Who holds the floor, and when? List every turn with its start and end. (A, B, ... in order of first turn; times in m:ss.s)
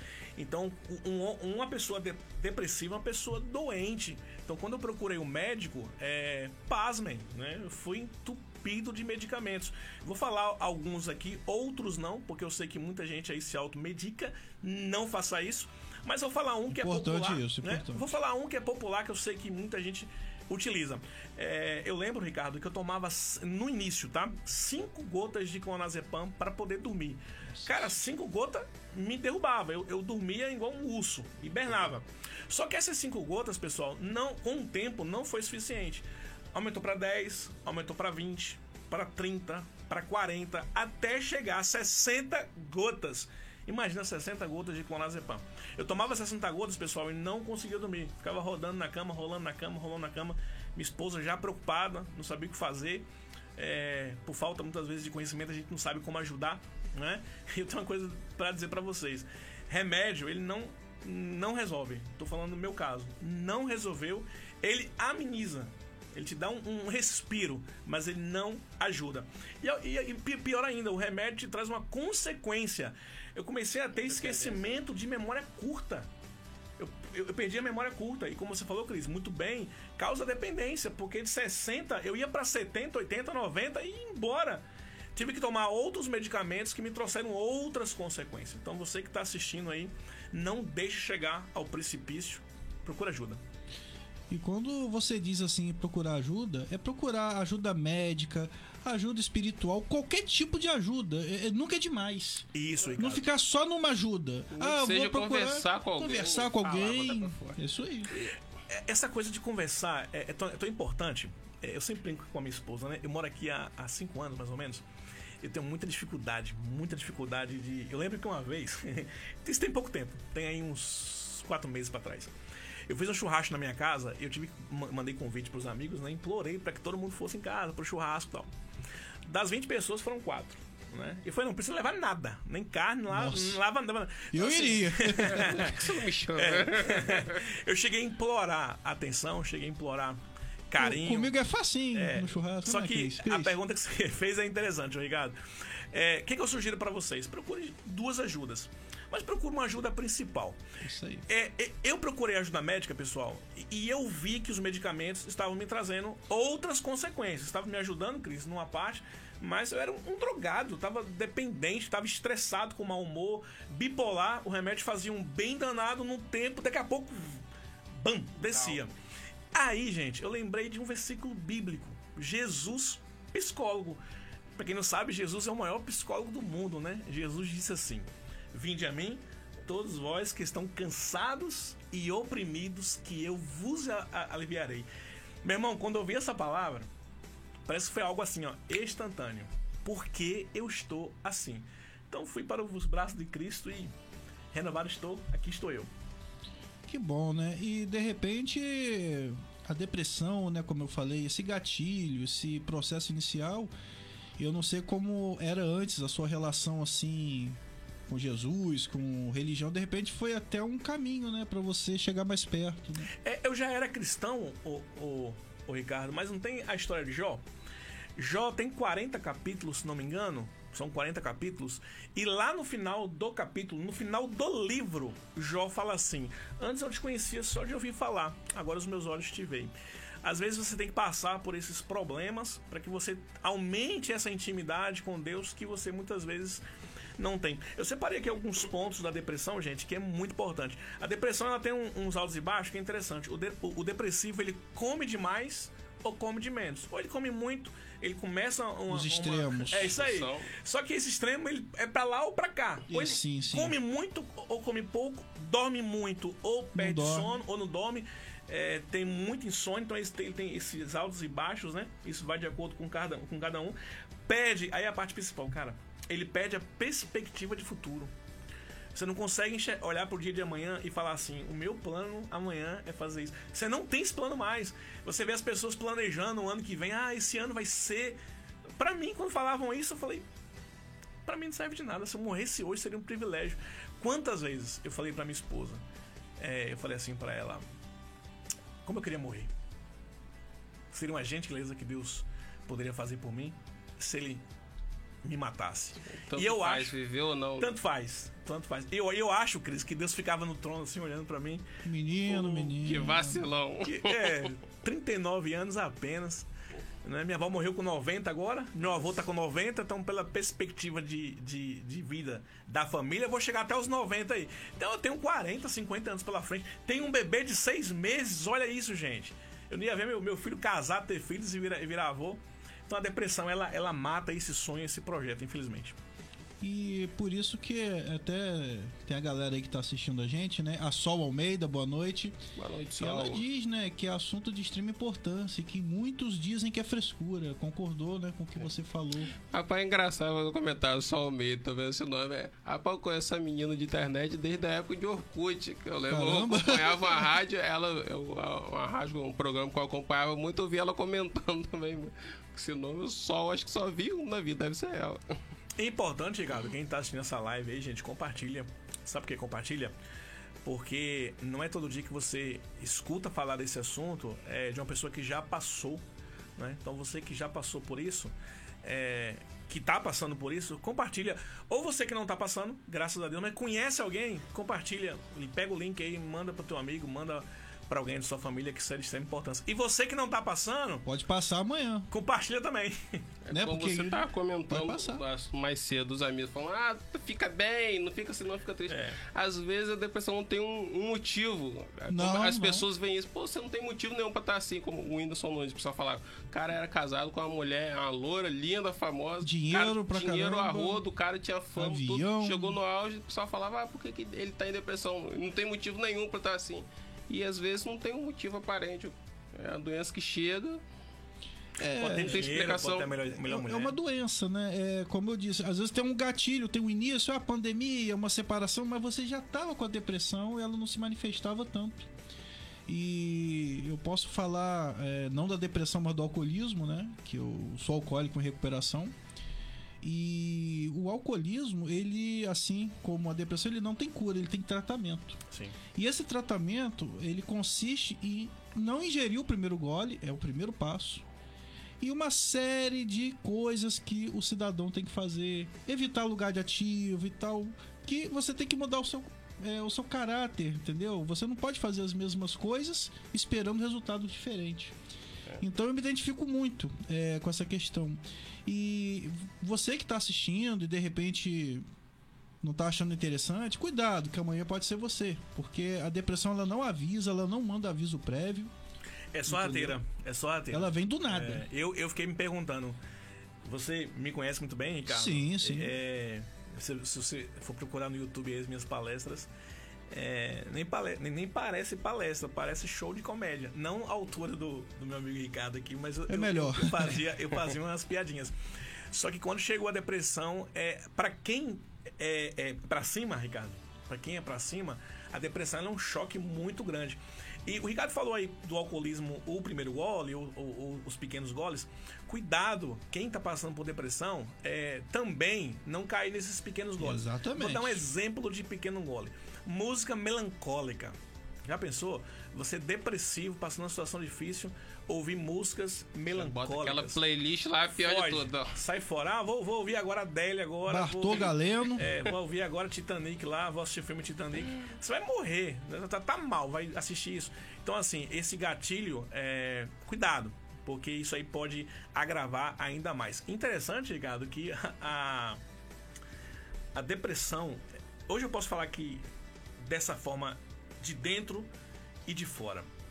0:00.4-1:16.1 A
0:16.7-0:18.1 B
0:27.5-0:27.9 B
1:14.0-1:14.7 C
1:16.8-1:33.4 A
1:34.3-1:48.2 B
1:42.5-1:43.3 A
1:44.5-1:47.6 C
1:48.1-1:54.8 A
1:55.4-2:02.3 A
2:02.9-2:08.5 A
2:09.3-2:21.4 A
2:13.1-2:13.6 B
2:14.3-2:15.7 B
2:15.2-2:17.4 C
2:20.8-2:23.6 B
2:21.9-2:30.6 A
2:30.8-2:31.2 B
2:31.3-2:47.4 A
2:48.0-2:48.9 A
2:49.5-2:54.0 A
2:54.6-3:04.9 A
3:05.4-3:06.9 A
3:07.7-3:13.9 A
3:14.5-3:15.9 A
3:16.9-3:23.7 B
3:24.4-3:33.1 B
3:33.2-3:37.4 A
3:38.2-3:56.6 A
3:57.2-4:28.1 A
4:08.9-4:10.0 B
4:09.9-4:10.5 C
4:12.9-4:13.8 B
4:16.8-4:17.3 B
4:28.9-4:38.2 A
4:38.8-4:40.3 A
4:41.2-4:45.8 A
4:46.4-4:47.6 A
4:48.8-4:49.5 A
4:50.9-4:54.4 A
4:55.2-4:57.0 A
4:56.1-4:57.7 C
4:57.6-5:01.8 A
5:01.8-5:03.5 B
5:02.3-5:02.8 A
5:02.8-5:04.5 C
5:03.8-5:06.5 A
5:07.0-5:26.0 A
5:26.6-5:32.4 B
5:32.6-5:33.4 C
5:33.0-5:39.3 B
5:39.5-5:55.3 C
5:46.1-5:47.3 B
5:55.8-5:59.9 A
6:00.6-6:06.0 A
6:06.6-6:21.1 A
6:21.0-6:22.1 B
6:22.1-6:23.2 A
6:23.5-6:50.8 C
6:23.5-6:25.2 B
6:28.9-6:29.2 A
6:32.1-6:32.9 B
6:39.4-6:41.0 B
6:41.8-6:42.8 B
6:51.8-6:52.4 B
6:52.0-6:54.0 A
6:52.1-6:53.1 C
6:53.5-7:02.1 B
7:02.9-7:09.1 B
7:10.0-7:15.4 B
7:15.5-7:15.8 A
7:15.9-7:21.2 B
7:22.0-7:34.9 B
7:35.6-7:41.8 B
7:42.6-7:48.7 B
7:49.3-7:53.0 A
7:49.5-7:50.0 B
7:50.7-7:51.6 B
7:53.6-7:59.5 A
7:55.1-7:56.0 B
8:00.1-8:08.5 A
8:06.3-8:07.4 B
8:09.1-8:37.2 A
8:27.0-8:28.0 B
8:36.3-8:38.7 C
8:37.9-8:55.6 A
8:40.9-8:42.1 B
8:56.9-8:59.2 A
8:59.8-9:01.7 A
9:02.3-9:02.9 A